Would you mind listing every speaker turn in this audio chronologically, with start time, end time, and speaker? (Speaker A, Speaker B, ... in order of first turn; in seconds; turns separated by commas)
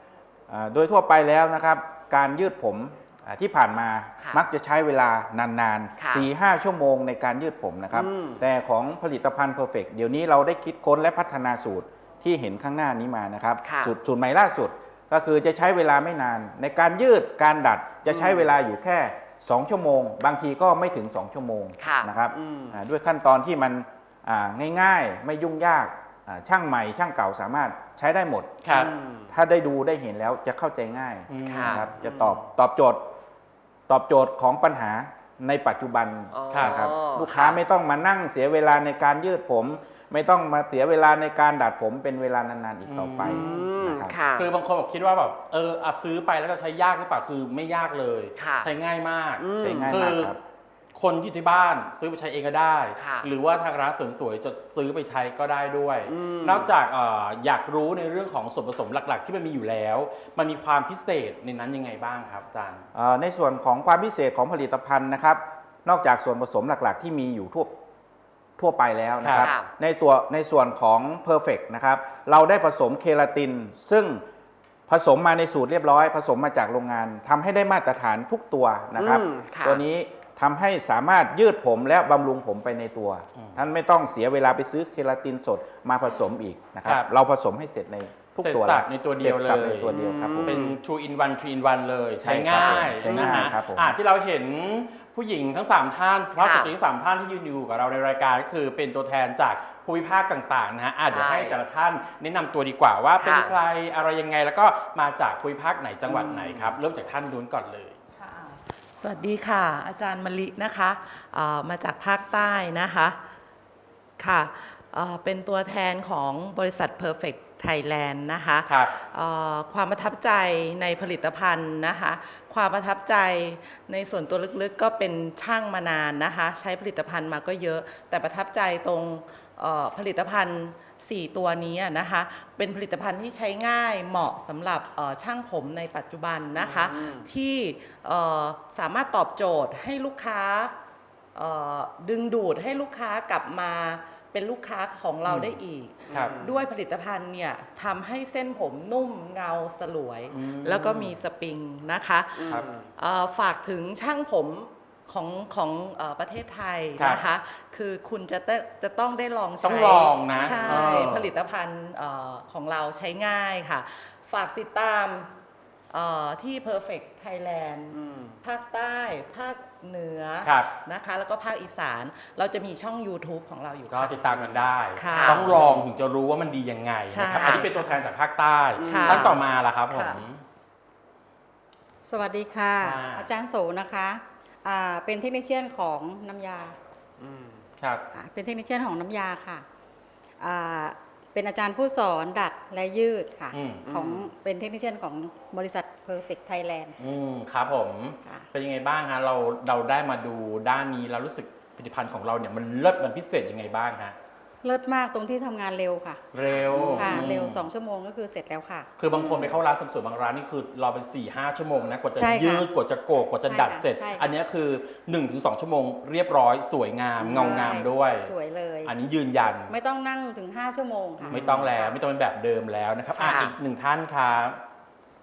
Speaker A: 0.5-28.6, Speaker B: 7.9-8.4, Speaker B: 13.6-13.9, Speaker B: 18.1-18.4, Speaker B: 21.8-22.7, Speaker C: 28.6-28.9, Speaker B: 28.7-29.2, Speaker A: 29.3-33.0, Speaker C: 31.3-31.9, Speaker B: 31.5-32.3, Speaker A: 33.9-44.1, Speaker B: 36.4-37.6, Speaker C: 36.5-36.9, Speaker C: 42.9-43.5, Speaker B: 43.2-44.4, Speaker C: 44.4-50.3, Speaker B: 48.4-48.7, Speaker B: 49.4-50.0, Speaker A: 49.6-50.4, Speaker C: 50.9-62.8, Speaker B: 53.0-53.3, Speaker B: 56.1-56.7, Speaker A: 62.9-67.7, Speaker A: 68.6-74.2, Speaker C: 69.2-69.5, Speaker B: 69.4-69.7, Speaker A: 74.9-90.7, Speaker B: 79.0-79.8, Speaker C: 88.4-108.0, Speaker B: 90.0-90.6, Speaker A: 92.2-94.0, Speaker B: 93.1-93.4, Speaker B: 96.4-96.7, Speaker B: 101.1-101.5, Speaker B: 103.2-103.5, Speaker D: 106.1-106.7, Speaker D: 108.2-113.2, Speaker D: 114.2-140.7, Speaker C: 118.7-118.9, Speaker B: 136.6-137.2, Speaker D: 141.3-165.3, Speaker C: 145.3-145.6, Speaker B: 146.1-146.5, Speaker C: 146.1-146.4, Speaker C: 150.3-151.2, Speaker B: 152.4-152.9, Speaker C: 157.0-157.2, Speaker C: 159.6-161.3, Speaker D: 165.9-175.9, Speaker C: 170.4-170.7, Speaker C: 173.9-180.4, Speaker B: 175.1-175.4, Speaker D: 177.1-178.1, Speaker B: 177.4-177.6, Speaker D: 178.8-180.2, Speaker B: 178.8-179.2, Speaker E: 182.0-186.8, Speaker C: 182.8-183.3, Speaker C: 187.8-188.0, Speaker E: 188.1-189.6, Speaker E: 190.4-196.9, Speaker C: 193.5-193.9, Speaker C: 197.0-204.2, Speaker E: 204.6-208.9, Speaker C: 206.3-207.7, Speaker C: 209.0-218.3, Speaker E: 212.1-212.7, Speaker E: 213.4-214.3, Speaker E: 217.2-218.9, Speaker C: 218.8-219.7, Speaker E: 219.7-221.8, Speaker C: 221.3-224.6, Speaker B: 223.2-223.5